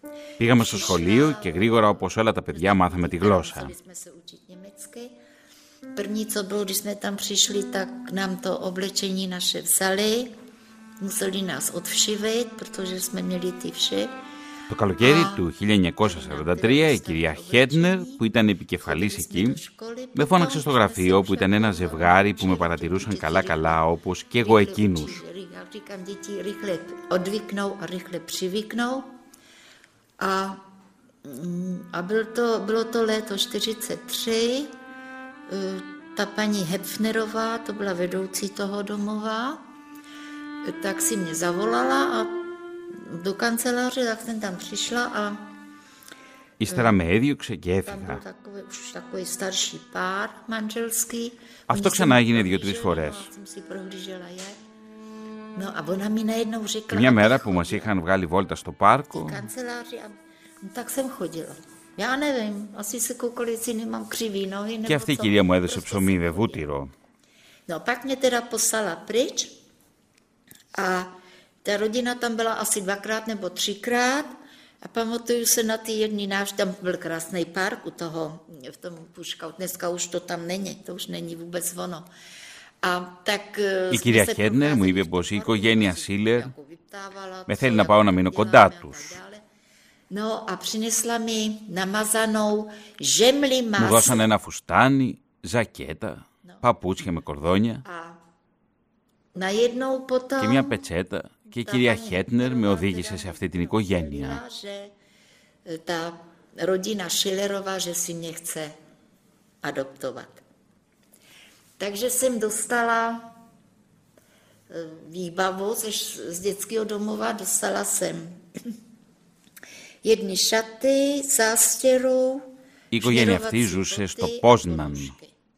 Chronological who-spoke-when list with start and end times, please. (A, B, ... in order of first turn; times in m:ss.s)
0:00.4-0:03.7 A
0:00.4-0:05.1 B
0:05.9-0:10.3 B
0:11.0-0:14.1 B
0:14.7-0:19.6 A
0:15.0-0:15.4 B
0:16.0-0:18.2 B
0:18.8-0:23.8 B
0:20.1-0:25.2 A
0:24.4-0:29.1 B
0:30.2-0:30.6 B
0:31.2-0:34.7 B
0:35.5-0:39.6 B
0:40.6-0:45.5 B
0:46.6-0:48.2 A
0:46.7-0:47.0 B
0:47.8-0:54.6 B
0:51.7-0:53.3 A
0:55.5-0:57.9 B
0:56.9-0:59.4 A
0:59.1-1:06.6 B
1:04.8-1:06.9 A
1:07.7-1:09.6 B
1:10.7-1:22.1 B
1:22.8-1:29.4 B
1:23.9-1:26.5 A
1:27.5-1:29.2 A
1:30.1-1:34.3 B
1:33.8-1:37.8 A
1:37.8-1:38.2 B
1:39.3-1:40.8 B
1:40.4-1:44.4 A
1:41.5-1:44.9 B
1:45.6-1:48.7 B
1:49.6-1:50.4 B
1:51.8-1:53.3 B
1:54.7-1:58.7 B
2:00.0-2:05.3 B
2:02.9-2:05.1 A